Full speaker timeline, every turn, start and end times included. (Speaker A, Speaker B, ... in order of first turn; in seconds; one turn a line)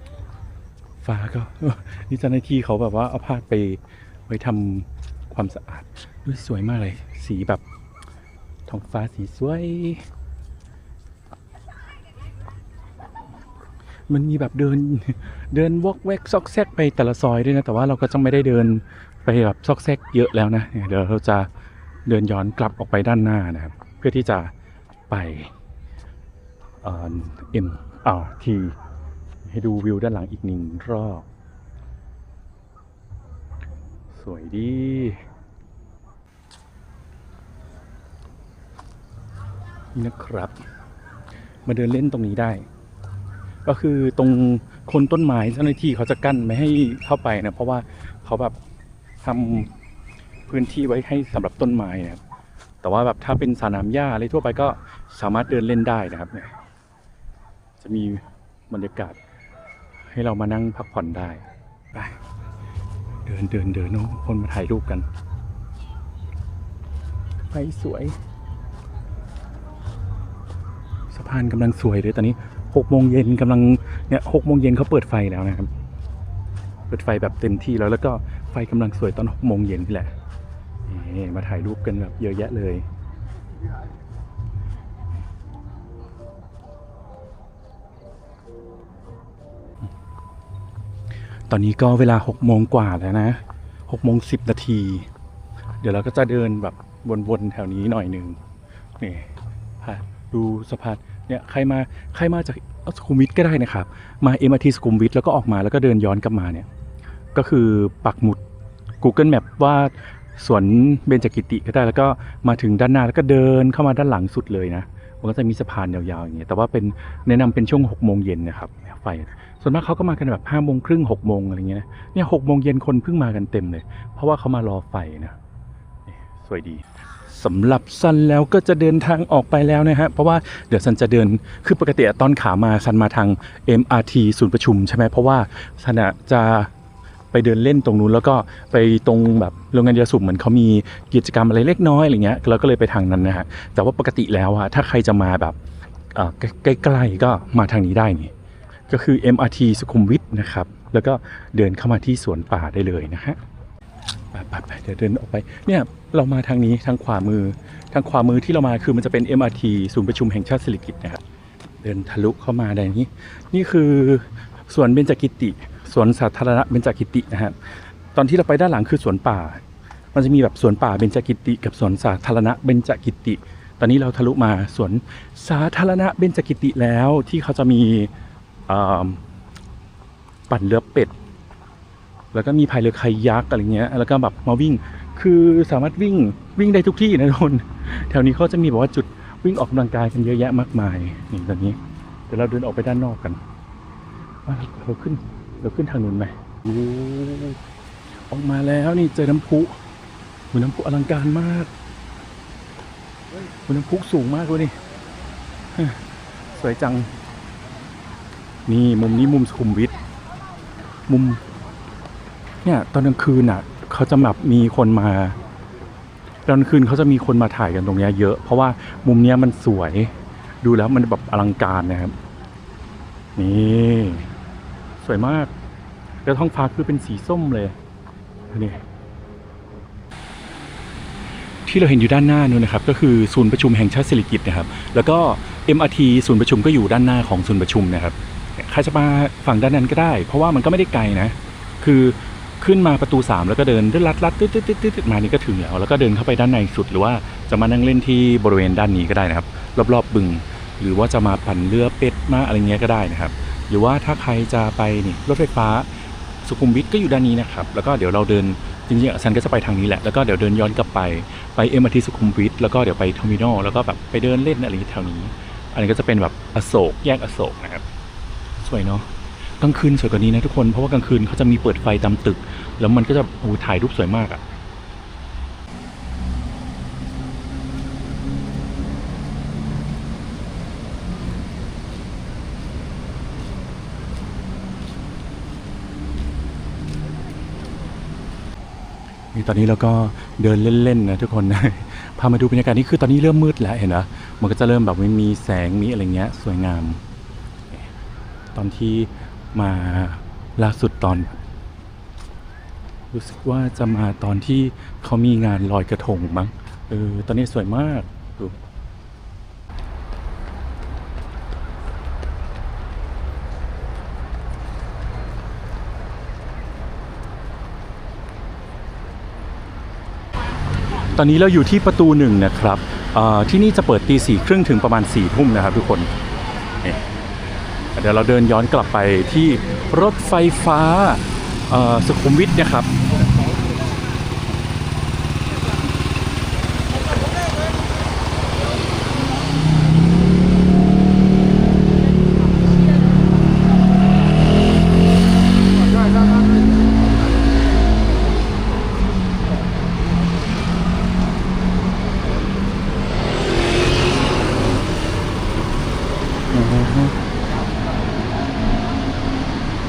Speaker A: 1.0-7.6
Speaker A: 8.7-10.1
Speaker A: 14.1-21.5
Speaker A: 22.1-24.5
Speaker A: 25.1-25.5
Speaker A: 26.8-28.8
Speaker A: 29.4-31.2
Speaker A: 34.1-35.2
Speaker A: 39.9-40.6
Speaker A: 41.6-42.7
Speaker A: 43.6-48.6
Speaker A: 49.2-49.7
Speaker A: 50.5-52.2
Speaker A: 52.8-56.5
Speaker A: 57.8-59.2
Speaker A: 60.0-62.2
Speaker A: 63.2-65.0
Speaker A: 67.5-68.2
Speaker A: 71.1-75.7
Speaker A: 76.9-80.1
Speaker A: 80.8-82.9
Speaker A: 91.5-95.1
Speaker A: 95.8-98.4
Speaker A: 99.0-106.7
Speaker A: 107.3-108.4
Speaker A: 109.0-125.4
Speaker A: 126.1-136.7
Speaker A: 137.3-145.6
Speaker A: 146.1-148.3
Speaker A: 148.9-153.4
Speaker A: 154.3-161.2
Speaker A: 161.8-169.6
Speaker A: 170.1-178.1
Speaker A: 178.7-179.2
Speaker A: 180.5-181.1
Speaker A: 182.3-191.8
Speaker A: 192.3-193.4
Speaker A: 194.4-197.6
Speaker A: 198.3-199.8
Speaker A: 200.5-201.7
Speaker A: 203.7-204.8
Speaker A: 205.7-207.1
Speaker A: 208.7-209.9
Speaker A: 211.1-211.4
Speaker A: 212.6-215.4
Speaker A: 216.4-222.1
Speaker A: 223.4-224.3
Speaker A: 225.0-225.5
Speaker A: 226.2-227.8
Speaker A: 228.5-228.8
Speaker A: 231.7-267.8
Speaker A: 268.6-269.1
Speaker A: 269.6-274.4
Speaker A: 289.3-297.0
Speaker A: 298.5-301.4
Speaker A: 303.1-308.6
Speaker A: 321.1-326.1
Speaker A: 327.9-332.9
Speaker A: 356.5-357.1